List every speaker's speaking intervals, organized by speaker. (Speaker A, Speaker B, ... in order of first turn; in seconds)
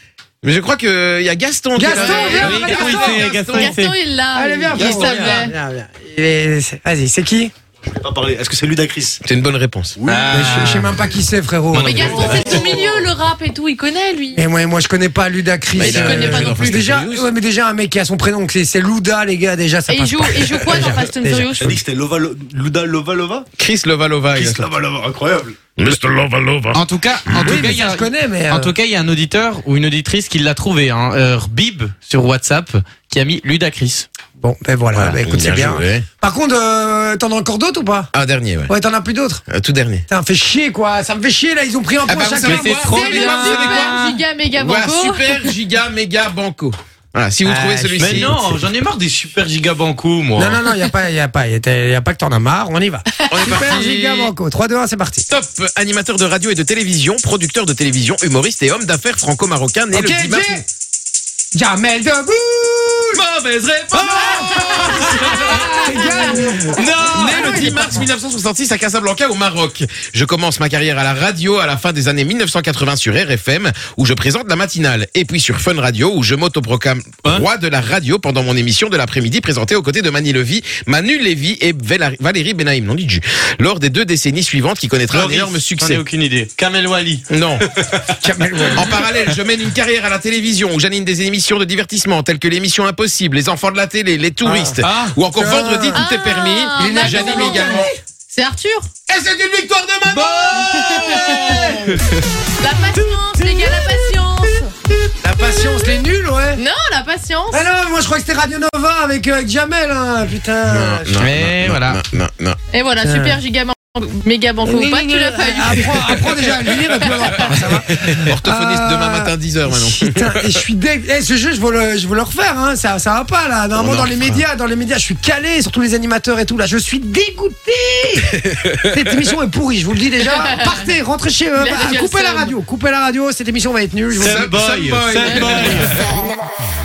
Speaker A: 0.4-3.7, 9.2-9.9, 15.7-17.3, 23.6-24.7, 25.8-26.8, 34.9-36.0, 38.1-38.7, 39.5-40.0, 42.0-43.9, 44.5-48.4, 53.3-54.3, 55.3-60.6, 63.1-86.0, 87.3-87.6, 88.7-97.9, 99.1-101.6, 110.7-112.6, 117.4-120.6, 123.7-124.4, 128.5-128.9, 134.2-136.1
Speaker B: 1.7-3.6, 4.3-7.5, 10.3-12.8, 14.3-21.8, 27.4-28.7, 34.4-38.1, 38.7-39.4, 40.1-43.5, 47.4-48.7, 50.4-55.2, 59.9-60.6, 61.5-63.2, 63.9-68.0, 88.2-89.0, 94.4-94.8, 95.3-96.0, 96.8-98.0, 100.1-100.7, 103.5-103.8, 105.2-106.6, 107.5-111.2, 113.0-113.4, 114.6-128.3, 128.9-134.5
Speaker C: 1.9-5.5, 11.8-14.4, 15.8-16.8, 19.9-21.7, 42.9-45.5, 95.9-98.9, 100.5-101.8, 102.6-104.7, 106.5-107.6, 112.7-117.6, 130.2-130.8, 131.6-132.5, 135.2-135.7
Speaker D: 2.4-3.9, 10.1-10.9, 11.7-12.1, 26.7-34.1, 42.4-44.2, 48.0-50.6, 66.8-67.1, 85.1-89.3, 94.8-95.2, 101.5-102.0, 111.2-112.0, 134.2-136.0
Speaker E: 4.8-5.4, 7.9-9.2, 10.0-10.3, 11.8-12.9, 21.6-23.4, 24.3-25.6